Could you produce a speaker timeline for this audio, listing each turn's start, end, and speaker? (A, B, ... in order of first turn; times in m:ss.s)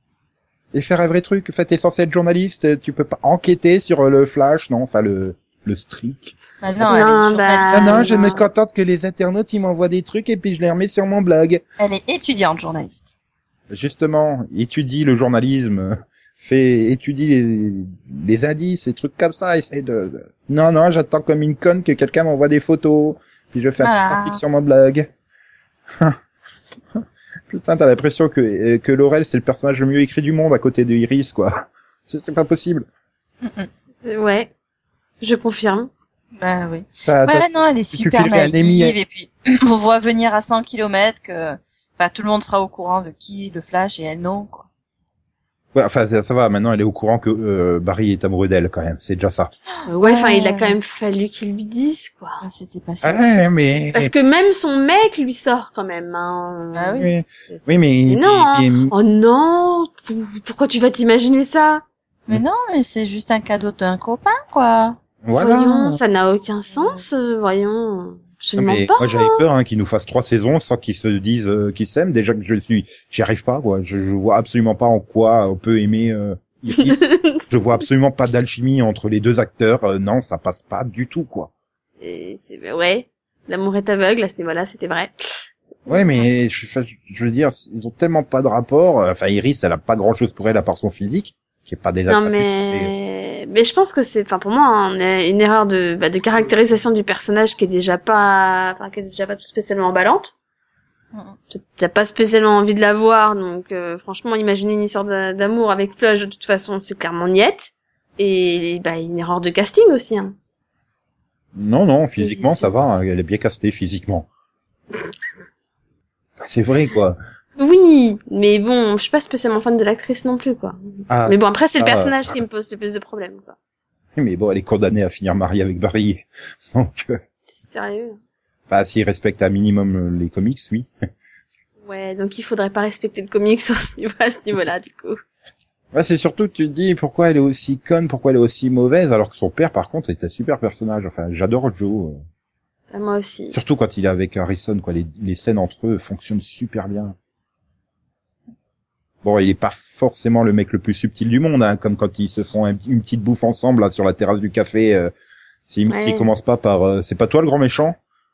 0:00.7-0:06.4 A
0:06.6-0:08.3 B
0:06.8-0:08.4 C
0:07.7-0:11.6 A
0:11.8-0:13.1 B
0:13.7-0:25.1 A
0:23.8-0:24.4 B
0:26.9-0:32.9 A
0:33.4-0:33.7 B
0:34.0-0:34.5 C
0:35.2-0:35.9 C
0:36.4-0:44.7 B
0:37.0-0:39.0 A
0:45.7-0:49.5 A
0:49.9-0:52.4 C
0:50.0-0:50.8 B
0:52.4-0:53.3 B
0:53.0-0:54.1 A
0:53.9-1:01.8 C
0:56.7-0:57.1 B
0:57.0-0:58.9 A
1:02.3-1:05.0 B
1:05.2-1:06.0 A
1:05.4-1:09.4 C
1:08.6-1:21.5 A
1:16.8-1:17.4 C
1:22.0-1:26.2 C
1:25.9-1:32.9 A
1:32.1-1:40.3 C
1:41.5-1:50.3 C
1:51.5-1:54.3 A
1:52.2-1:52.7 C
1:56.4-1:57.2 A
1:57.6-2:03.5 C
2:01.1-2:02.4 A
2:04.2-2:07.2 A
2:07.5-2:08.2 C
2:08.7-2:10.9 A
2:11.8-2:15.2 C
2:15.9-2:22.2 A
2:22.9-2:23.6 C
2:23.5-2:27.2 A
2:29.2-2:35.1 A
2:35.7-2:38.0 A
2:35.9-2:36.3 C